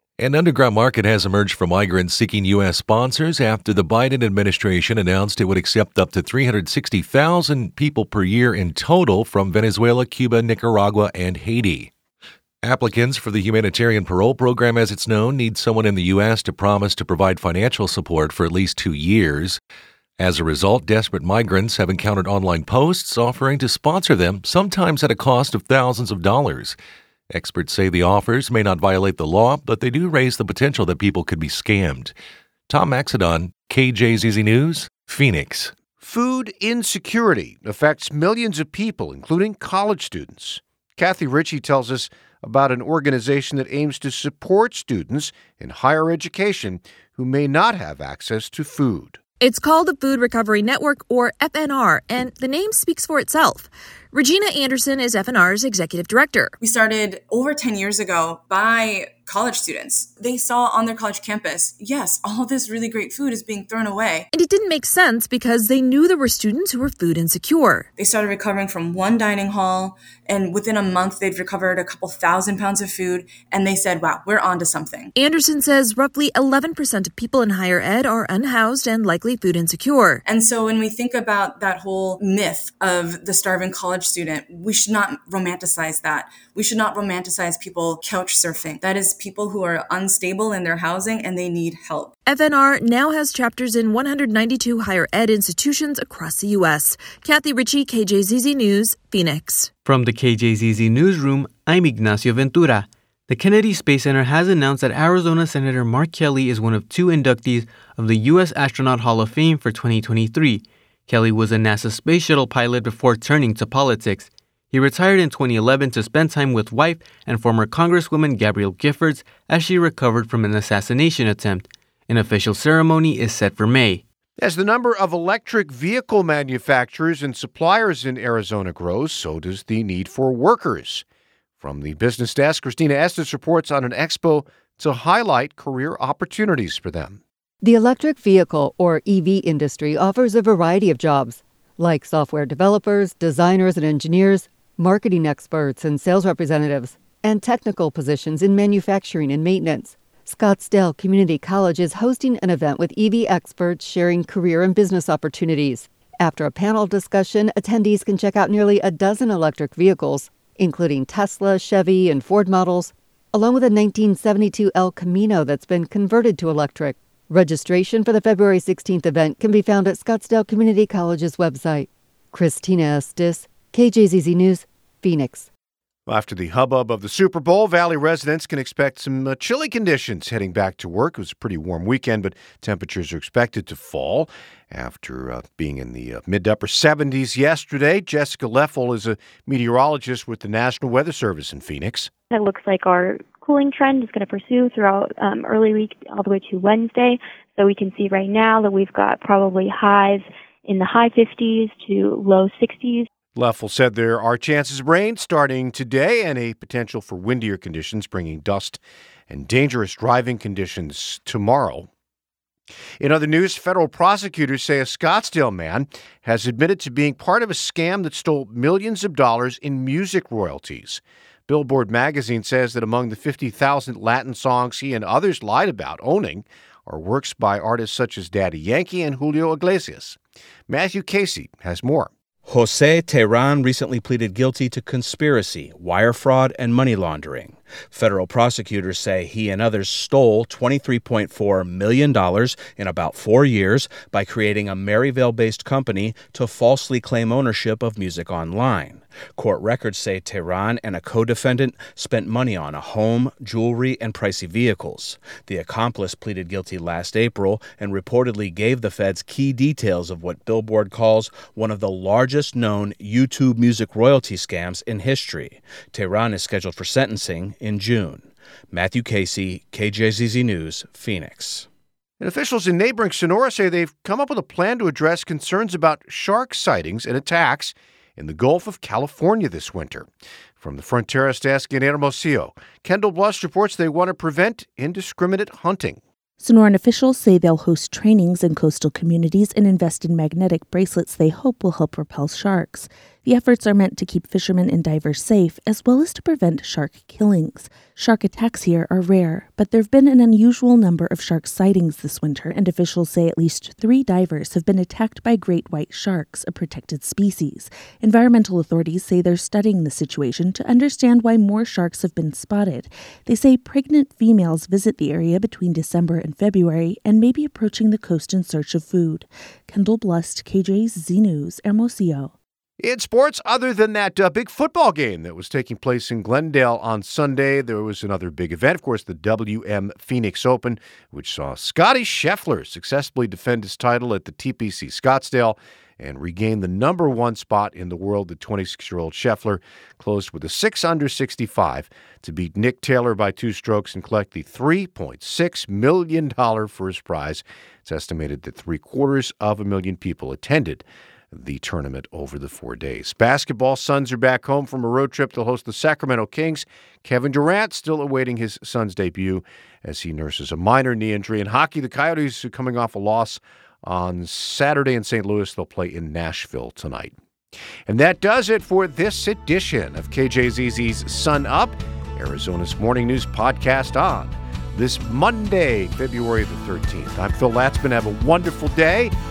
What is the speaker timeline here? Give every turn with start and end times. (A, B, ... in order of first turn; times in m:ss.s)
0:00.2-0:11.9 A
0:12.6-0:19.6 A
0:20.2-0:26.8 A
0:27.3-0:32.1 A
0:32.7-0:35.7 A
0:36.0-0:49.2 B
0:49.4-0:56.5 C
0:56.6-1:04.2 D
1:04.3-1:07.9 C
1:08.0-1:15.1 D
1:15.2-1:20.2 C
1:20.2-1:32.1 D
1:32.2-1:39.7 C
1:39.8-2:04.0 E
2:04.4-2:11.0 B
2:11.6-2:17.2 B
2:17.6-2:55.5 F
2:56.1-3:12.1 B
3:12.3-3:23.1 G
3:23.3-3:31.9 B
3:33.0-3:52.1 B
3:52.4-4:31.7 H
4:32.2-4:46.0 B
4:46.4-5:22.3 I
5:22.8-6:07.1 B
6:07.9-6:19.1 B